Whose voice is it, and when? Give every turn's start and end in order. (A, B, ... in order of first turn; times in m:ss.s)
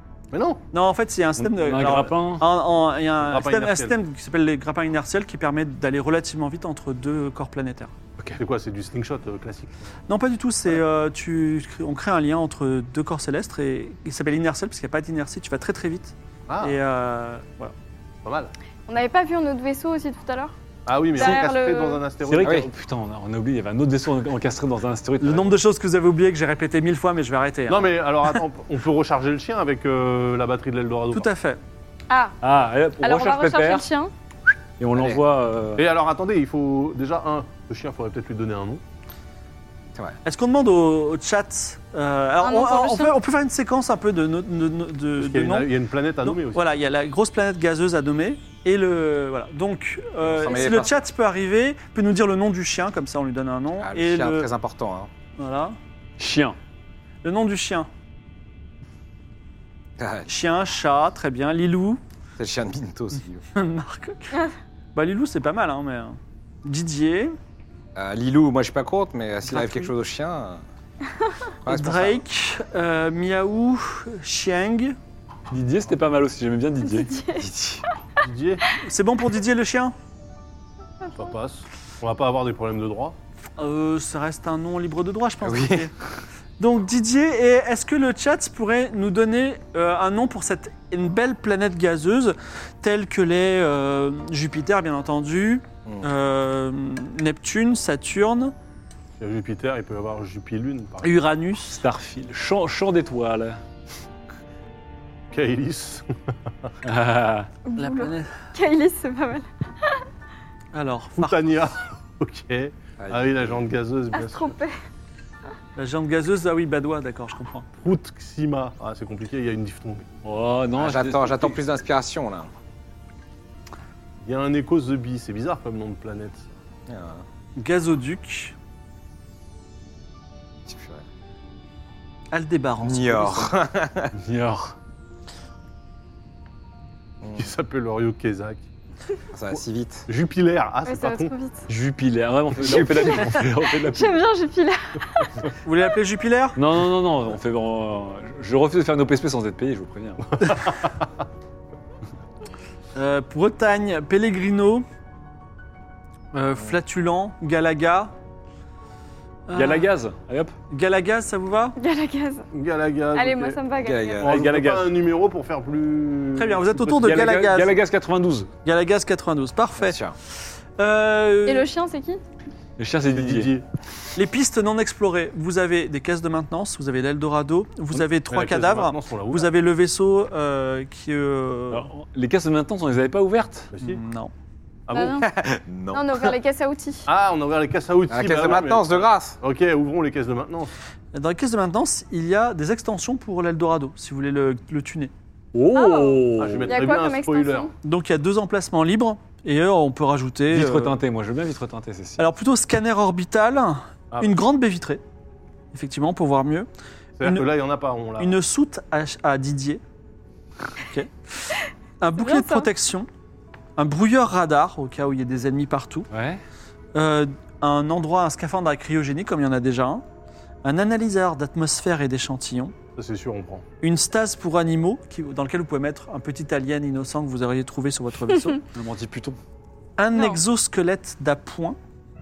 0:00.3-0:00.6 A
0:00.7-0:07.9 B
0:01.4-0:02.4 C
0:03.2-0:04.0 A
0:08.4-0:09.9 A
0:10.1-0:17.7 B
0:16.5-0:16.8 A
0:18.2-0:18.5 A
0:18.9-0:20.5 D
0:20.9-0:22.6 A
0:21.2-0:22.0 D
0:22.3-0:25.6 C
0:22.4-0:22.7 E
0:25.2-0:28.4 B
0:27.7-0:31.3 A
0:31.1-0:31.6 B
0:32.1-0:32.4 D
0:32.4-0:33.9 C
0:33.0-0:34.1 D
0:34.8-0:35.8 C
0:35.8-0:38.8 A
0:40.2-0:45.7 B
0:42.4-0:43.2 D
0:45.2-0:46.6 A
0:46.2-0:54.5 B
0:50.2-0:51.0 E
0:53.8-0:55.1 E
0:55.4-0:55.8 B
0:56.2-0:56.6 C
0:57.2-0:57.9 B
1:00.0-1:00.3 E
1:00.3-1:02.0 B
1:02.4-1:03.4 E
1:03.6-1:04.4 B
1:05.0-1:07.4 B
1:08.0-1:10.6 E
1:09.4-1:09.9 B
1:11.6-1:12.2 E
1:11.7-1:15.0 B
1:15.5-1:17.8 C
1:16.9-1:17.5 D
1:18.2-1:18.6 A
1:18.8-1:20.0 B
1:21.1-1:23.2 A
1:23.6-1:25.9 B
1:25.4-1:25.9 E
1:26.6-1:38.5 B
1:39.2-1:41.2 A
1:41.0-1:41.8 B
1:41.8-1:43.6 C
1:45.3-1:46.1 A
1:46.8-1:47.5 C
1:47.7-1:50.0 D
1:47.8-1:48.3 B
1:50.7-1:51.5 B
1:51.2-1:54.6 A
1:53.0-1:53.5 E
1:54.1-1:54.8 D
1:55.8-1:57.7 B
1:57.8-2:00.1 A
2:00.2-2:01.6 C
2:00.8-2:02.5 E
2:04.2-2:06.5 A
2:06.9-2:07.2 E
2:07.6-2:08.6 B
2:10.7-2:11.0 E
2:12.3-2:13.6 B
2:12.8-2:14.1 E
2:14.2-2:14.8 C
2:17.3-2:18.6 A
2:19.3-2:20.1 E
2:20.1-2:21.3 A
2:20.8-2:21.7 D
2:21.7-2:24.2 C
2:22.6-2:23.3 E
2:23.8-2:25.3 D
2:25.6-2:26.6 B
2:26.6-2:30.4 C
2:33.0-2:34.9 B
2:36.3-2:38.1 B
2:39.5-2:39.9 B
2:39.5-2:40.5 C
2:40.7-2:41.8 B
2:41.8-2:42.4 D
2:42.5-2:43.6 A
2:43.1-2:44.3 D
2:43.8-2:44.4 E
2:44.2-2:47.1 A
2:44.3-2:44.9 C
2:46.4-2:47.8 B
2:46.8-2:48.5 C
2:48.6-2:50.0 B
2:49.8-2:50.2 E
2:50.8-2:51.7 B
2:51.5-2:52.2 D
2:52.8-2:53.5 C
2:53.1-2:53.6 A
2:54.2-3:01.9 B
2:58.3-2:59.5 A
3:01.7-3:03.7 C
3:03.7-3:04.0 A
3:03.8-3:04.3 B
3:04.9-3:05.2 A
3:04.9-3:05.3 D
3:05.2-3:06.3 E
3:05.9-3:07.1 D
3:07.1-3:10.7 A
3:08.1-3:09.4 E
3:11.1-3:15.1 B
3:15.5-3:16.8 C
3:15.7-3:17.7 D
3:16.4-3:17.7 A
3:17.8-3:21.0 B
3:20.5-3:22.3 C
3:22.2-3:25.0 B
3:24.1-3:24.4 A
3:25.7-3:26.7 B
3:27.2-3:28.4 A
3:27.2-3:27.5 B
3:28.2-3:29.8 B
3:30.9-3:31.1 B
3:32.0-3:33.1 B
3:32.2-3:32.7 D
3:33.8-3:36.1 B
3:36.1-3:36.4 C
3:37.0-3:40.0 B
3:40.6-3:42.7 B
3:43.0-3:43.7 A
3:43.8-3:48.6 B
3:48.7-3:49.4 C
3:50.0-3:51.8 B